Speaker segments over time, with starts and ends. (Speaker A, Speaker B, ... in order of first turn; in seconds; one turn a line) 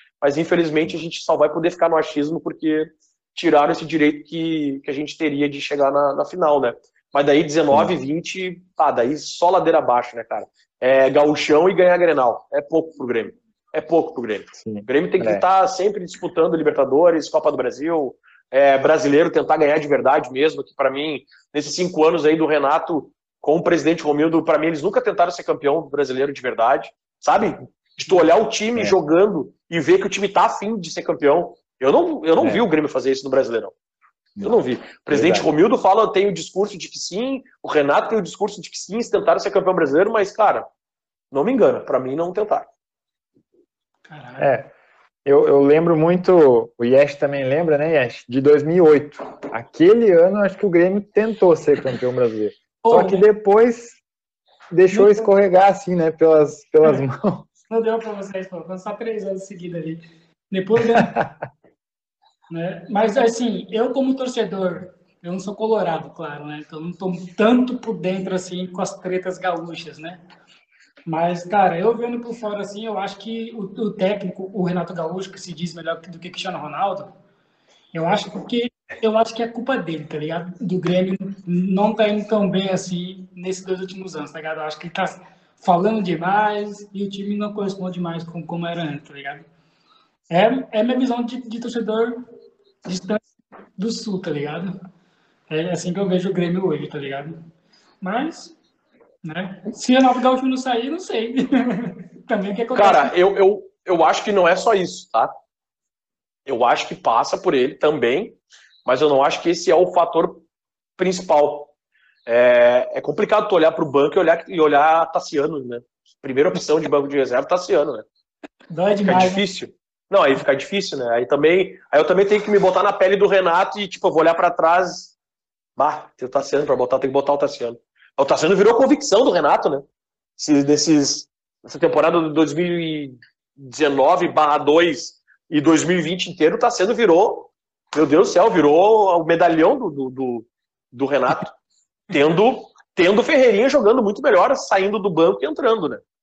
Speaker A: 0.2-33.7
Speaker B: 14.6-15.4
Speaker B: 32.4-32.7
Speaker A: 34.4-40.7
Speaker B: 35.1-35.5
Speaker A: 41.3-42.7
Speaker C: 44.1-44.5
Speaker B: 44.4-44.7
Speaker B: 45.2-54.0
Speaker C: 52.8-53.2
Speaker B: 54.7-57.5
Speaker C: 54.9-55.3
Speaker C: 57.7-61.2
Speaker B: 60.9-61.3
Speaker C: 62.5-70.2
Speaker C: 71.1-77.1
Speaker C: 77.9-89.5
Speaker C: 90.3-92.2
Speaker C: 92.8-93.2
Speaker C: 93.8-94.8
Speaker C: 95.5-97.4
Speaker C: 98.0-98.5
Speaker C: 99.2-103.1
Speaker A: 102.7-105.3
Speaker A: 106.5-110.5
Speaker A: 111.0-111.7
Speaker A: 112.3-118.0
Speaker C: 118.7-119.4
Speaker A: 119.0-125.1
Speaker A: 125.8-129.8
Speaker A: 130.4-141.6
Speaker A: 142.1-146.0